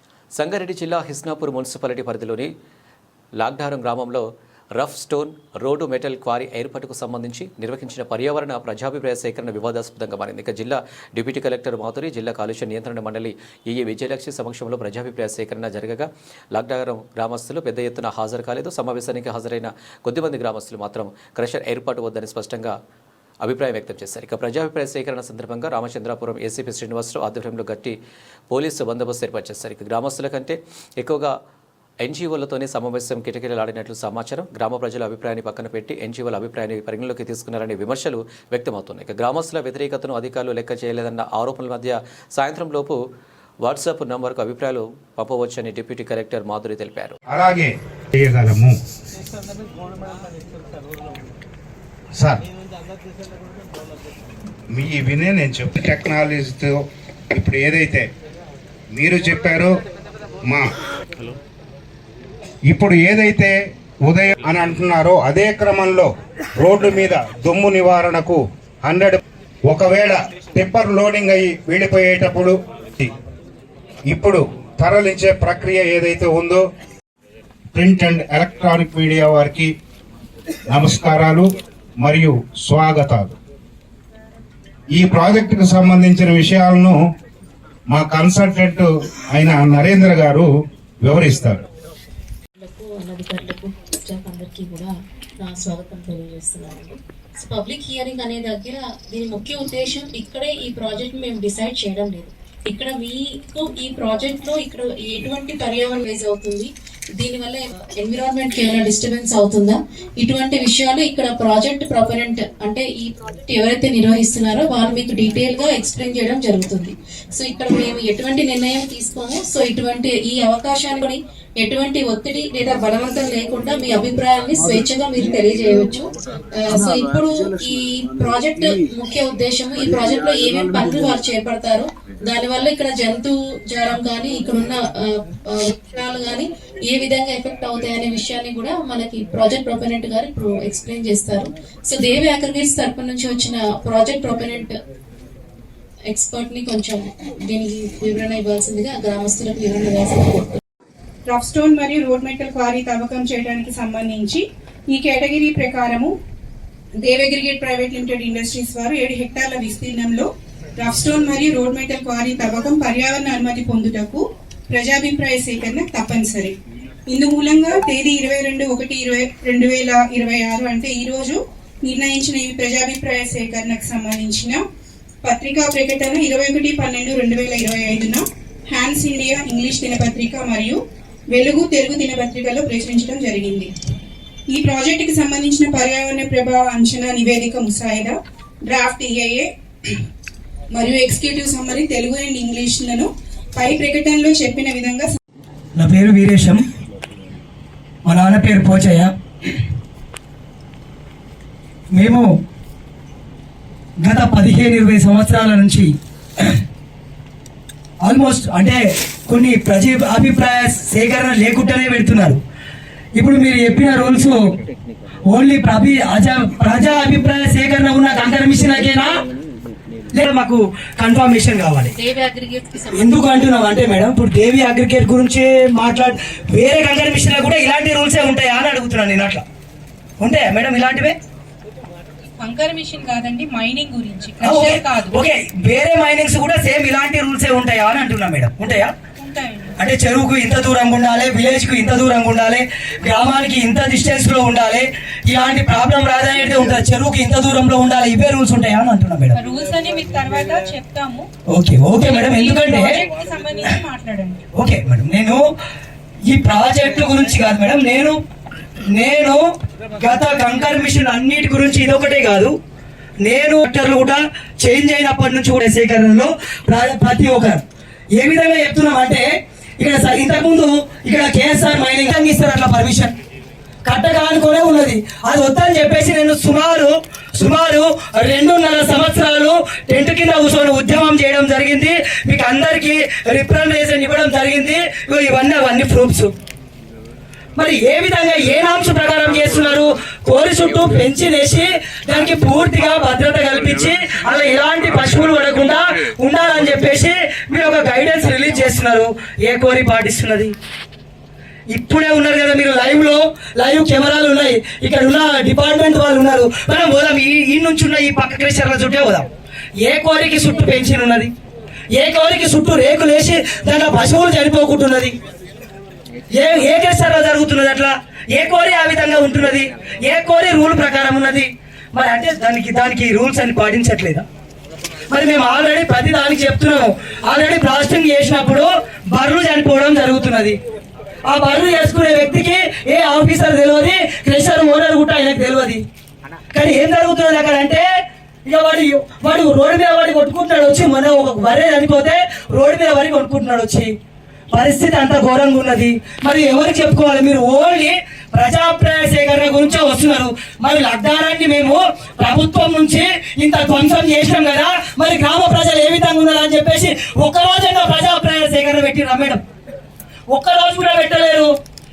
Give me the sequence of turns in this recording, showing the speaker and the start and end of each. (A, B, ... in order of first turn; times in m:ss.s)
0:00.3-0:02.5 A
0:03.4-0:22.8 A
0:23.4-0:28.0 A
0:28.5-0:31.3 A
0:32.0-0:43.0 A
0:43.6-0:47.2 A
0:47.3-0:48.7 B
0:54.7-0:56.8 B
0:57.3-0:58.0 B
0:58.9-0:59.7 B
1:02.7-1:03.5 B
1:04.0-1:13.1 B
1:14.1-1:16.6 B
1:17.7-1:19.7 B
1:20.7-1:21.5 B
1:22.0-1:23.3 B
1:24.9-1:27.0 B
1:27.9-1:30.5 B
1:31.0-1:31.6 B
1:32.6-2:24.7 C
2:26.1-2:30.6 C
2:31.2-2:36.1 D
2:36.9-2:46.5 D
2:47.1-2:54.6 D
2:55.2-3:00.8 D
3:01.3-3:03.7 D
3:04.5-3:09.9 D
3:10.7-3:15.2 D
3:15.8-3:16.6 E
3:18.0-3:19.1 E
3:21.9-3:22.3 E
3:24.0-3:26.5 E
3:28.0-3:32.4 E
3:33.2-3:34.4 E
3:35.3-3:39.2 E
3:40.1-3:42.0 E
3:41.9-3:43.4 C
3:42.9-3:49.4 E
3:50.2-3:51.2 E
3:52.4-3:55.2 D
3:54.4-3:58.9 E
3:59.2-3:59.7 D
3:59.8-4:09.4 E
4:09.3-4:11.2 D
4:11.5-4:13.0 E
4:12.0-4:14.4 D
4:14.5-4:15.4 E
4:16.3-4:18.2 E
4:18.9-4:19.4 E
4:20.0-4:22.5 E
4:23.2-4:27.6 E
4:28.2-4:29.2 E
4:29.8-4:33.1 E
4:33.8-4:46.3 E
4:47.6-5:00.5 E
5:01.7-5:09.3 E
5:09.8-5:11.3 E
5:12.0-5:15.2 E
5:16.3-5:24.2 E
5:25.1-5:30.6 E
5:31.3-5:35.8 E
5:36.5-5:37.8 E
5:38.4-5:43.9 E
5:44.5-5:59.4 E
6:00.3-6:01.5 E